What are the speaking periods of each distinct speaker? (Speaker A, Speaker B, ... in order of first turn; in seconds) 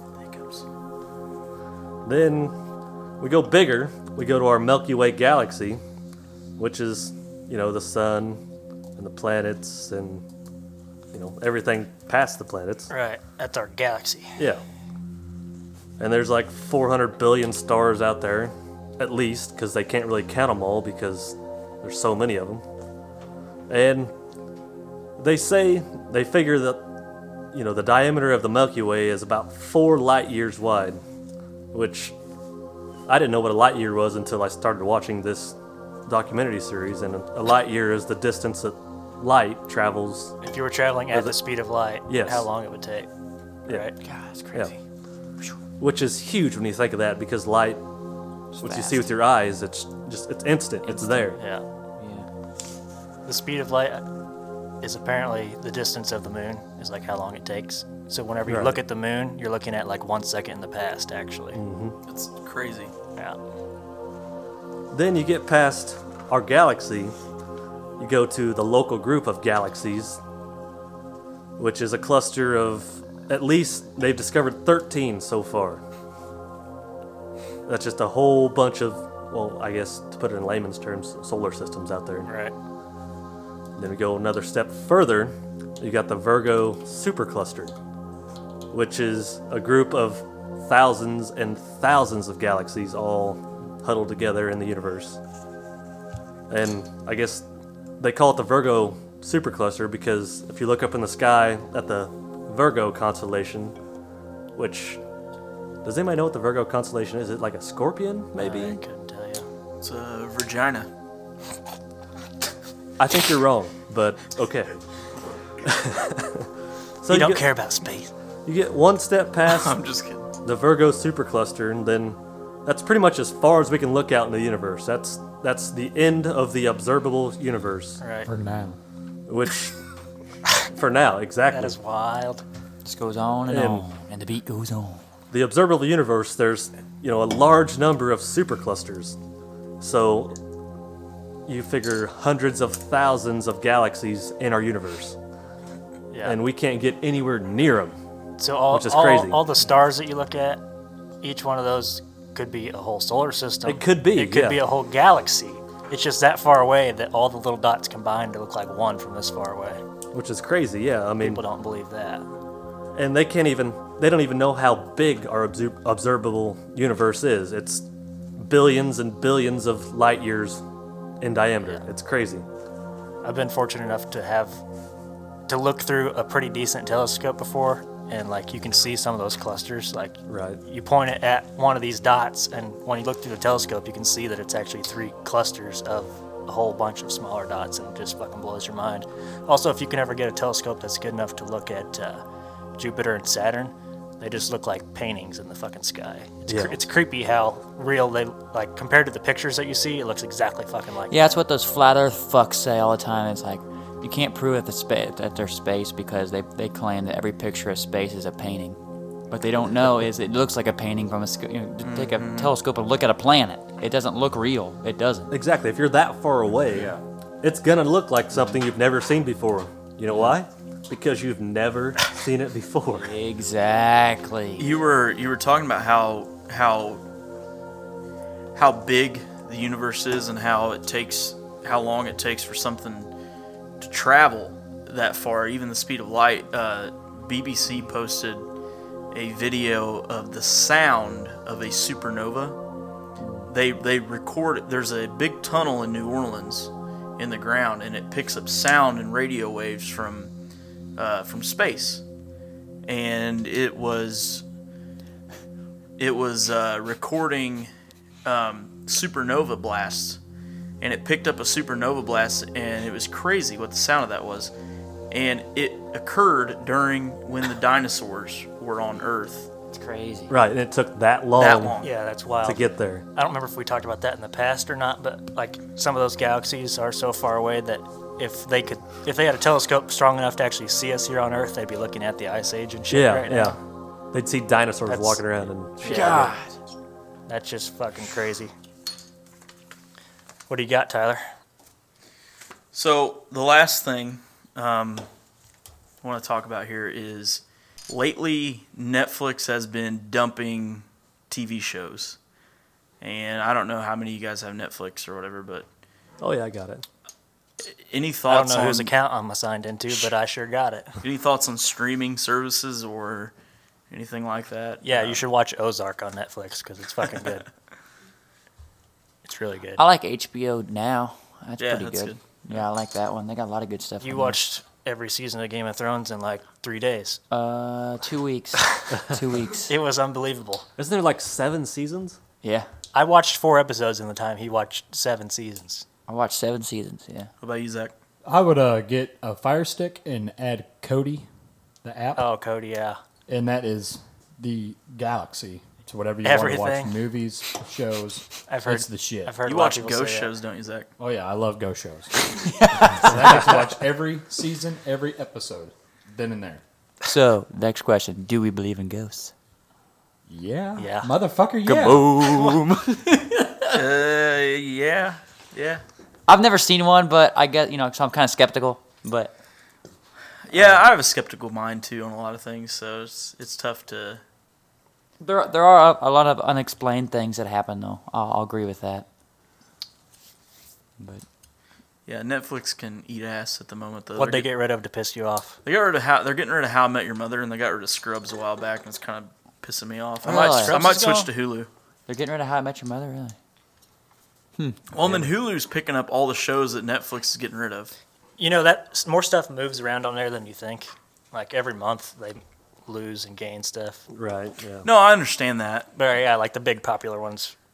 Speaker A: 0.2-0.6, 62.1-62.9, 109.8-110.9, 119.5-120.2, 211.8-212.5, 224.6-227.0, 228.5-233.1, 233.8-238.4, 239.1-242.6, 243.5-250.3, 250.9-252.0, 252.8-254.4, 256.0-257.7, 258.2-260.2, 260.8-264.5, 265.1-269.5, 271.4-271.9, 292.7-295.1, 296.0-302.2, 303.0-305.6, 307.6-308.9, 311.0-313.3, 313.9-315.2, 321.6-322.6, 337.4-337.9, 349.4-350.9, 363.7-365.8, 370.5-374.2, 382.1-384.5, 385.6-391.7, 394.9-397.9, 404.8-405.9
Speaker B: 2.0-2.5, 3.2-5.8, 6.6-8.4, 9.0-10.2, 11.1-12.9, 16.0-22.6, 23.7-24.1, 25.2-26.8, 27.5-31.0, 31.7-32.1, 33.1-40.3, 41.1-41.4, 42.1-42.5, 45.8-47.8, 48.6-51.4, 58.5-58.8, 61.5-62.0, 64.9-67.1, 68.0-70.2, 71.6-75.8, 77.7-82.3, 83.8-87.7, 88.7-95.2, 96.5-97.5, 98.0-103.8, 104.5-105.0, 105.8-108.8, 113.0-114.8, 115.6-116.5, 117.0-117.4, 118.5-119.8, 120.4-128.0, 129.3-129.8, 130.7-131.8, 133.5-133.8, 135.3-139.2, 139.8-140.4, 141.4-145.2, 146.2-148.0, 148.7-149.4, 153.7-154.6, 160.1-161.4, 162.9-167.8, 168.4-170.6, 171.2-172.4, 180.3-180.6, 196.5-196.8, 215.3-223.1, 270.3-271.8, 272.4-273.0, 282.9-283.6, 284.1-286.3, 306.2-306.8, 330.8-332.2, 395.0-395.3, 404.1-404.9
Speaker C: 12.9-14.4, 40.4-43.1, 43.7-44.0, 51.3-51.6, 53.2-54.0, 54.8-61.6, 82.2-82.5, 108.4-109.5, 117.1-118.1, 128.0-128.3, 131.5-132.4, 146.1-146.4, 148.4-150.6, 151.2-159.8, 161.2-162.3, 173.2-174.6, 175.5-192.2, 192.8-201.1, 271.8-283.6, 284.9-285.2, 285.8-286.3, 287.3-288.5, 290.5-291.2, 308.3-310.9, 314.8-317.4, 319.2-319.8, 324.0-327.2, 329.7-330.6, 332.9-335.8, 342.1-343.0, 346.2-347.0, 348.5-350.3, 360.8-361.1, 384.1-385.6, 390.3-391.0, 398.4-404.1, 405.9-407.5
Speaker D: 44.0-44.8, 48.5-49.1, 50.9-51.2, 52.0-52.2, 132.8-135.0, 201.1-215.3, 218.3-218.6, 220.1-220.3, 222.9-224.7, 243.2-243.5, 269.7-270.3, 285.9-286.5, 319.8-324.4, 327.3-329.7, 332.4-332.7, 336.1-337.3, 352.6-353.6, 357.0-359.3, 361.6-363.8, 366.3-369.3, 375.2-379.1, 381.0-381.2, 390.2-391.3, 392.1-393.4
Speaker E: 128.2-128.8, 338.2-341.2, 341.8-342.3, 343.3-349.3, 351.0-356.6, 360.3-362.5